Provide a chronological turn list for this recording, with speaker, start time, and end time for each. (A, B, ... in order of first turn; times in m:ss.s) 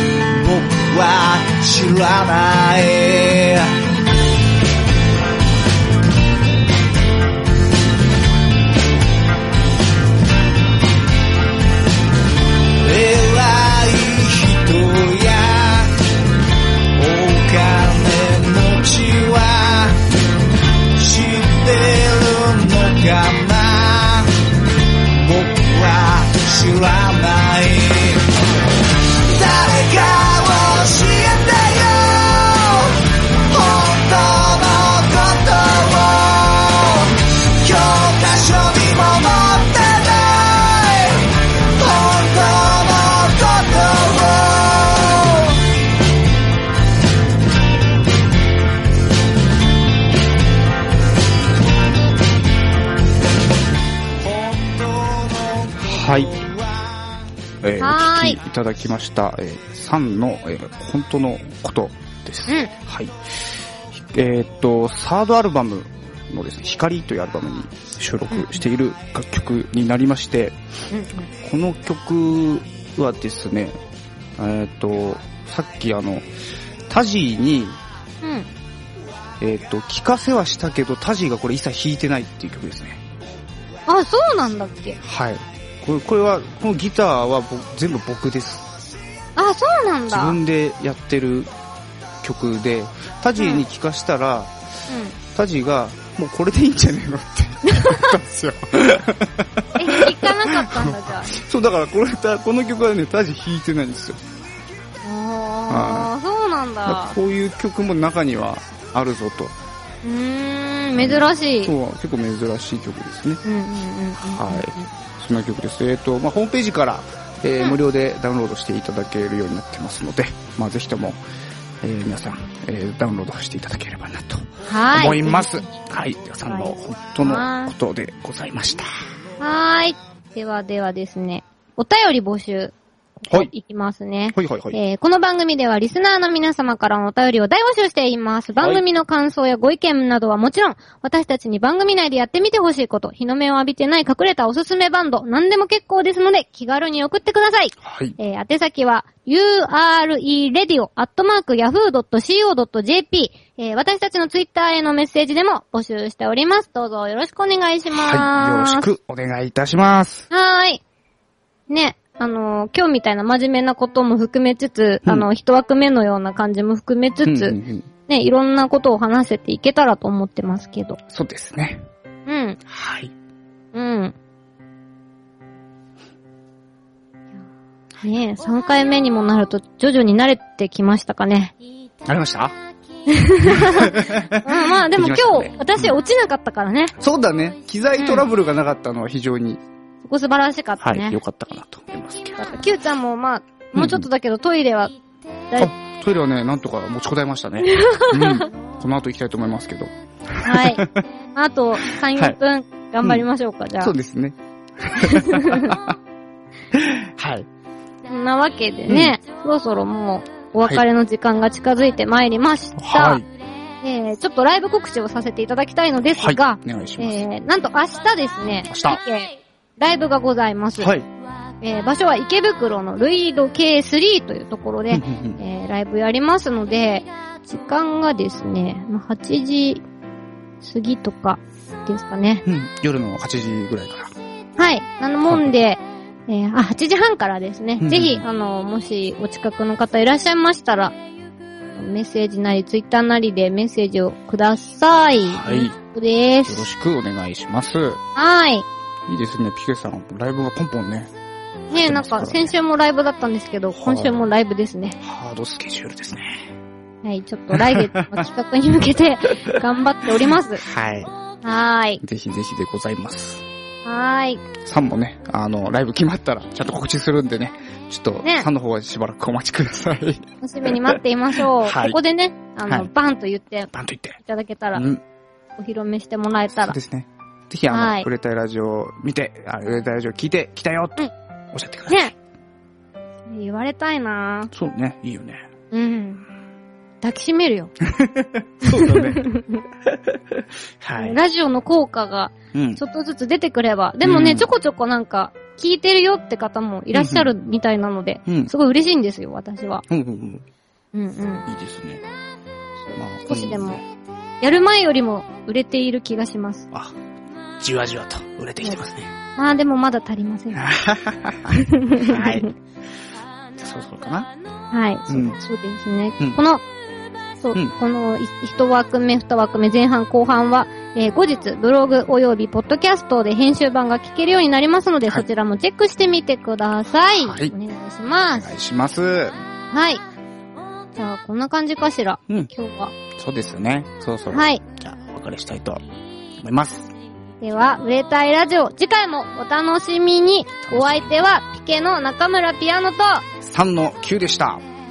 0:00.3-0:03.8 A
0:12.8-0:16.0 A
0:16.9-0:20.0 A
0:21.0-0:24.3 A
0:25.0-0:28.3 A
0:29.2-0:45.6 A
0:54.2-0:57.0 A
0:55.8-0:56.4 B
0:57.6-1:10.6 B
0:57.8-0:58.4 C
1:08.3-1:08.6 C
1:10.9-1:11.3 C
1:11.4-1:13.8 B
1:14.4-1:16.3 B
1:16.9-1:17.8 B
1:18.2-1:18.5 C
1:19.4-1:23.0 B
1:23.9-1:25.0 C
1:25.0-1:29.0 B
1:29.4-1:30.4 C
1:30.1-1:31.5 B
1:32.2-1:34.5 B
1:33.4-1:33.6 C
1:34.9-1:35.2 C
1:35.3-1:44.2 B
1:37.6-1:38.2 C
1:39.8-1:41.4 C
1:45.0-1:47.2 C
1:45.7-1:46.1 B
1:46.8-1:49.6 B
1:50.0-1:51.7 C
1:51.0-1:53.4 B
1:53.4-1:54.9 C
1:54.2-2:01.2 B
2:01.8-2:08.9 B
2:04.6-2:05.7 C
2:06.4-2:07.7 C
2:09.4-2:38.9 C
2:14.3-2:14.8 B
2:27.8-2:28.2 B
2:37.9-2:40.3 B
2:40.3-2:40.8 C
2:41.7-2:51.0 C
2:47.2-2:47.9 B
2:51.1-2:51.8 B
2:52.2-2:52.6 C
2:52.7-2:53.1 B
2:53.7-2:54.1 C
2:58.0-3:01.5 C
3:02.0-3:02.5 B
3:03.0-3:06.9 C
3:03.4-3:06.0 B
3:07.0-3:09.6 B
3:08.0-3:08.2 C
3:10.0-3:11.2 C
3:10.8-3:12.4 B
3:12.4-3:14.9 C
3:13.7-3:14.1 B
3:15.6-3:21.0 B
3:17.6-3:18.5 C
3:20.4-3:23.9 C
3:22.1-3:22.4 B
3:23.8-3:26.0 B
3:25.0-3:25.8 C
3:26.7-3:27.5 B
3:28.0-3:33.2 C
3:28.9-3:29.2 B
3:32.8-3:33.3 B
3:33.8-3:40.9 C
3:36.2-3:37.2 B
3:38.7-3:39.0 B
3:40.8-3:41.1 B
3:41.6-3:49.8 C
3:44.9-3:45.4 B
3:50.6-3:52.4 C
3:52.4-3:54.1 B
3:54.6-4:01.0 C
3:55.3-3:55.5 B
3:57.8-3:58.2 B
4:01.7-4:06.7 C
4:05.3-4:05.8 B
4:06.4-4:08.0 B
4:08.1-4:08.6 C
4:09.0-4:11.1 B
4:11.7-4:15.0 C
4:11.7-4:12.5 B
4:13.7-4:14.2 B
4:15.0-4:16.5 B
4:17.0-4:20.6 C
4:17.5-4:18.2 B
4:20.6-4:21.1 B
4:21.4-4:22.0 C
4:22.0-4:23.4 B
4:23.8-4:24.5 C
4:24.6-4:32.0 B
4:28.2-4:28.5 C
4:30.4-4:34.8 C
4:33.7-4:34.2 B
4:34.7-4:35.0 B
4:35.6-4:36.8 C
4:36.6-4:42.1 B
4:37.7-4:38.1 C
4:41.9-4:42.1 C
4:43.3-4:44.5 C
4:44.5-4:45.4 B
4:45.7-4:46.2 C
4:47.0-4:47.7 C
4:47.8-4:49.3 B
4:48.6-4:49.6 C
4:49.8-4:51.2 B
4:51.0-4:59.8 C
4:52.5-4:52.8 B
4:54.0-4:54.5 B
4:56.9-4:57.3 B
4:58.2-4:58.5 B
4:59.9-5:00.4 B
5:00.9-5:01.5 C
5:01.5-5:02.0 B
5:02.8-5:03.8 C
5:03.0-5:03.8 B
5:04.4-5:06.7 C
5:07.6-5:09.1 B
5:09.4-5:10.6 C
5:10.5-5:12.5 B
5:11.5-5:12.5 C
5:13.6-5:14.3 B
5:14.7-5:16.6 C
5:15.1-5:15.4 B
5:17.4-5:28.5 C
5:27.2-5:27.5 B
5:28.4-5:29.4 B
5:29.7-5:30.0 C
5:30.9-5:32.9 C
5:33.1-5:35.8 B
5:34.3-5:34.6 C
5:36.4-5:36.9 B
5:37.4-5:43.2 C
5:40.6-5:41.2 B
5:43.4-5:44.6 B